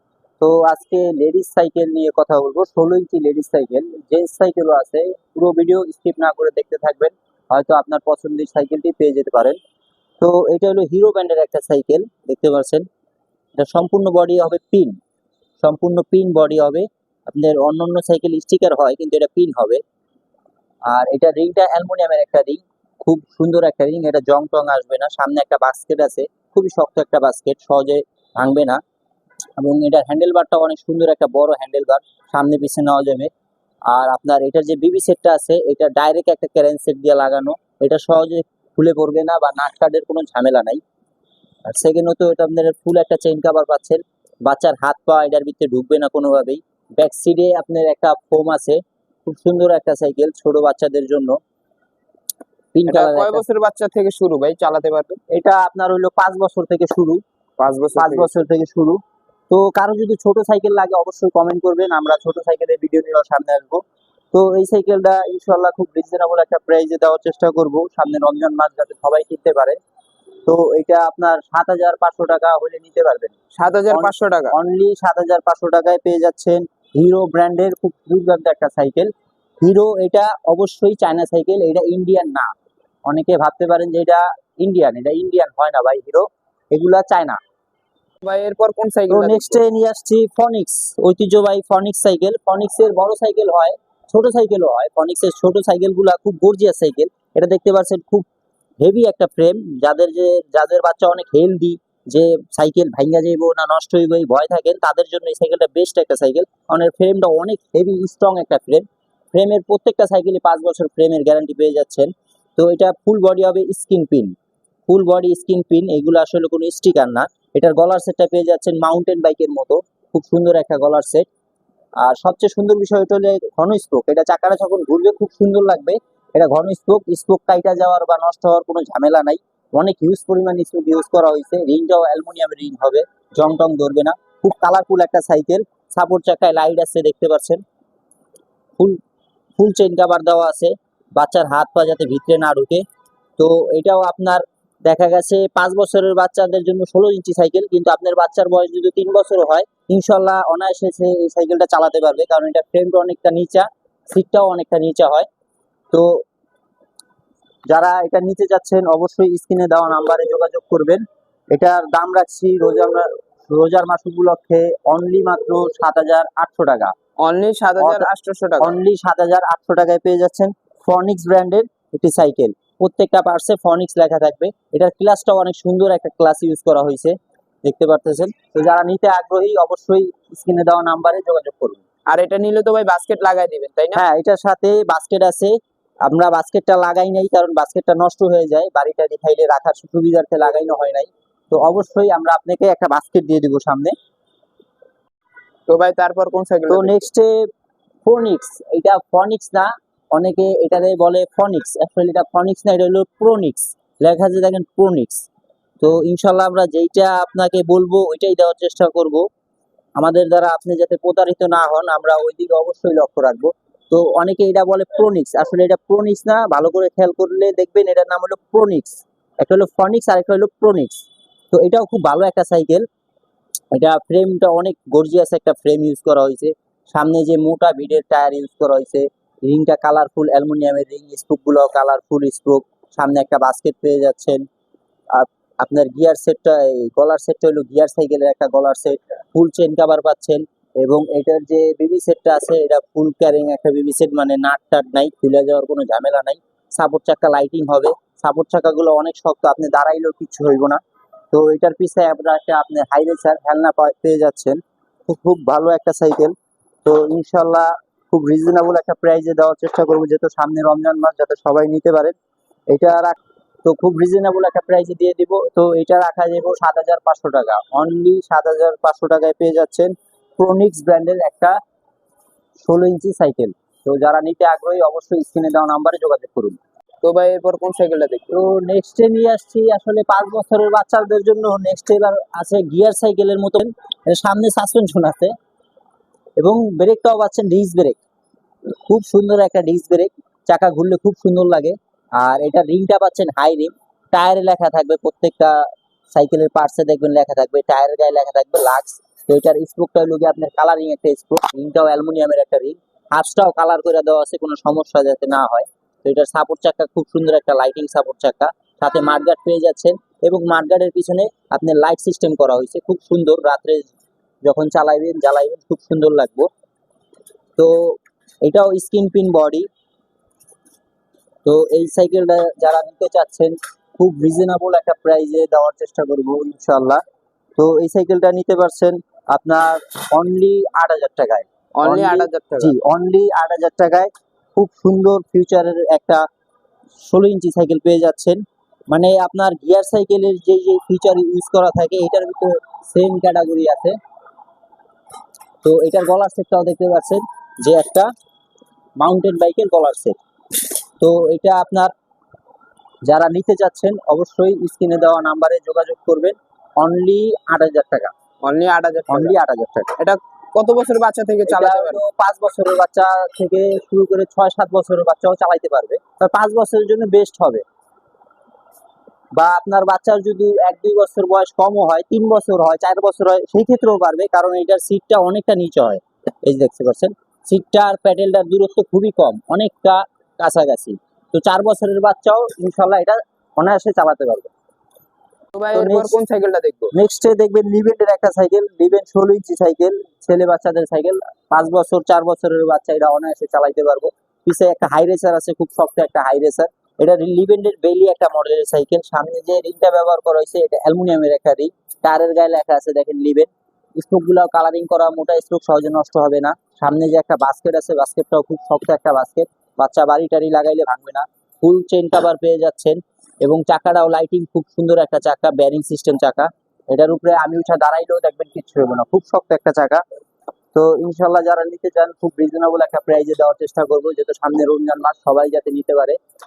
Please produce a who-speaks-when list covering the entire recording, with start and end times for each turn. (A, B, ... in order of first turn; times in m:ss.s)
0:00.4-0:09.6 A
0:10.2-0:12.9 A
0:13.6-0:15.0 A
0:15.6-0:19.8 A
0:20.9-0:28.8 A
0:29.6-0:33.3 A
0:33.9-0:40.8 A
0:41.7-0:51.4 A
0:52.7-0:53.4 A
0:52.9-0:55.2 B
0:55.3-0:57.2 A
0:57.6-0:58.3 B
0:58.0-0:59.0 A
0:59.5-1:03.8 A
1:04.3-1:09.8 A
1:10.5-1:13.4 A
1:13.6-1:14.6 B
1:13.9-1:22.5 A
1:23.1-1:27.4 A
1:28.2-1:29.6 B
1:29.1-1:38.3 A
1:38.8-1:54.4 A
1:54.9-2:01.3 A
2:02.0-2:17.6 A
2:19.6-2:22.8 A
2:23.4-2:35.3 A
2:35.9-2:36.2 A
2:37.7-2:46.9 A
2:47.2-2:48.7 B
2:47.8-2:48.1 A
2:48.6-3:01.8 A
3:02.1-3:04.0 B
3:04.0-3:14.0 A
3:15.7-3:17.0 B
3:16.7-3:17.4 A
3:18.0-3:25.3 A
3:25.8-3:29.2 A
3:30.0-3:42.9 A
3:43.7-3:54.5 A
3:55.1-4:10.8 A
4:11.3-4:16.3 A
4:16.8-4:22.2 A
4:22.7-4:31.6 A
4:32.6-4:36.6 A
4:37.0-4:38.4 B
4:38.3-4:45.3 A
4:46.4-4:48.0 A
4:48.9-5:13.9 A
5:14.4-5:16.5 A
5:17.6-5:19.7 A
5:21.4-5:27.0 A
5:27.6-5:36.2 A
5:31.8-5:32.7 B
5:37.0-5:44.0 A
5:45.6-5:48.1 A
5:49.0-5:50.2 A
5:51.0-5:51.9 A
5:53.1-5:58.1 A
5:58.4-5:59.4 B
5:59.1-6:00.0 A
6:00.0-6:02.0 B
6:01.5-6:07.6 A
6:09.4-6:24.5 A
6:25.6-6:26.9 B
6:25.7-6:26.1 A
6:26.9-7:00.0 A
7:00.8-7:06.2 A